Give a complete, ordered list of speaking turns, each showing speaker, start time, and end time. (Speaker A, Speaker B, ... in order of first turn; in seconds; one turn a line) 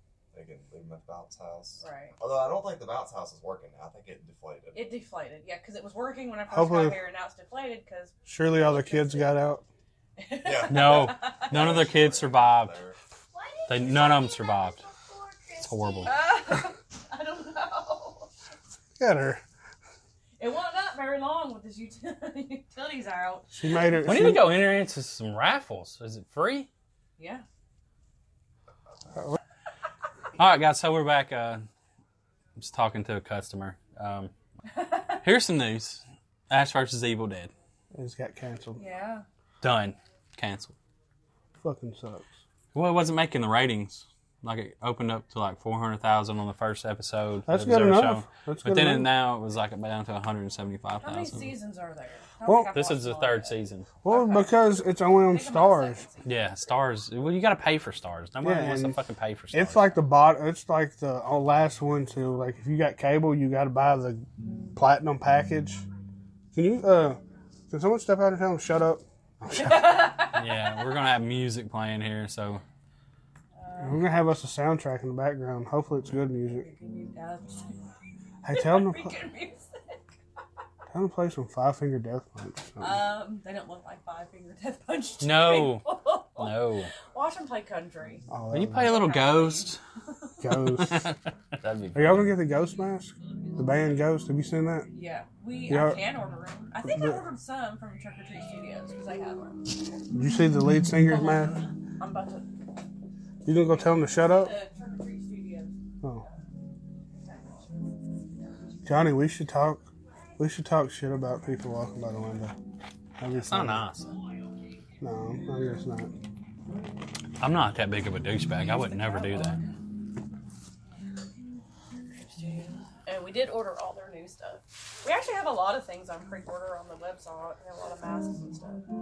Speaker A: 0.3-4.9
Speaker B: 1.8-2.2
Speaker B: 4.7-9.4
Speaker C: 6.5-7.0
Speaker C: 8.2-9.6
Speaker B: 10.2-11.8
Speaker A: 10.4-13.0
Speaker D: 10.7-12.8
Speaker E: 13.3-16.5
Speaker D: 13.7-14.8
Speaker D: 15.6-16.1
Speaker B: 16.0-18.3
Speaker C: 19.0-19.4
Speaker B: 20.4-24.0
Speaker C: 23.5-24.6
Speaker D: 24.0-26.7
Speaker B: 27.2-27.4
Speaker D: 30.4-31.7
Speaker D: 32.6-34.3
Speaker B: 34.8-35.2
Speaker D: 35.2-37.5
Speaker C: 37.9-38.8
Speaker B: 38.8-39.3
Speaker D: 39.6-40.8
Speaker C: 41.6-42.3
Speaker D: 42.7-51.5
Speaker C: 47.5-49.1
Speaker B: 51.0-53.5
Speaker C: 52.5-52.7
Speaker D: 52.7-53.9
Speaker C: 54.0-56.0
Speaker B: 54.0-56.4
Speaker D: 56.2-60.0
Speaker C: 58.4-59.0
Speaker C: 59.5-65.8
Speaker C: 66.5-70.2
Speaker B: 69.5-70.6
Speaker D: 70.3-72.6
Speaker B: 73.6-74.1
Speaker C: 73.8-76.7
Speaker B: 76.5-77.8
Speaker C: 78.4-79.2
Speaker B: 78.5-80.0
Speaker C: 80.9-83.1
Speaker B: 82.8-86.6
Speaker D: 85.2-86.9
Speaker B: 87.1-88.3
Speaker C: 88.3-89.0
Speaker D: 88.5-89.8
Speaker B: 88.8-89.8
Speaker C: 90.4-91.1
Speaker D: 90.6-92.3
Speaker C: 92.0-94.9
Speaker B: 94.9-99.7
Speaker C: 95.7-96.1
Speaker C: 96.8-97.2
Speaker C: 100.1-101.6
Speaker B: 101.1-102.5
Speaker C: 103.5-104.5
Speaker B: 103.7-106.3
Speaker B: 107.2-107.7
Speaker C: 108.8-112.5
Speaker C: 113.2-113.9
Speaker D: 113.3-114.2
Speaker C: 115.0-116.1
Speaker D: 117.4-119.6
Speaker B: 118.6-119.8
Speaker B: 122.2-128.9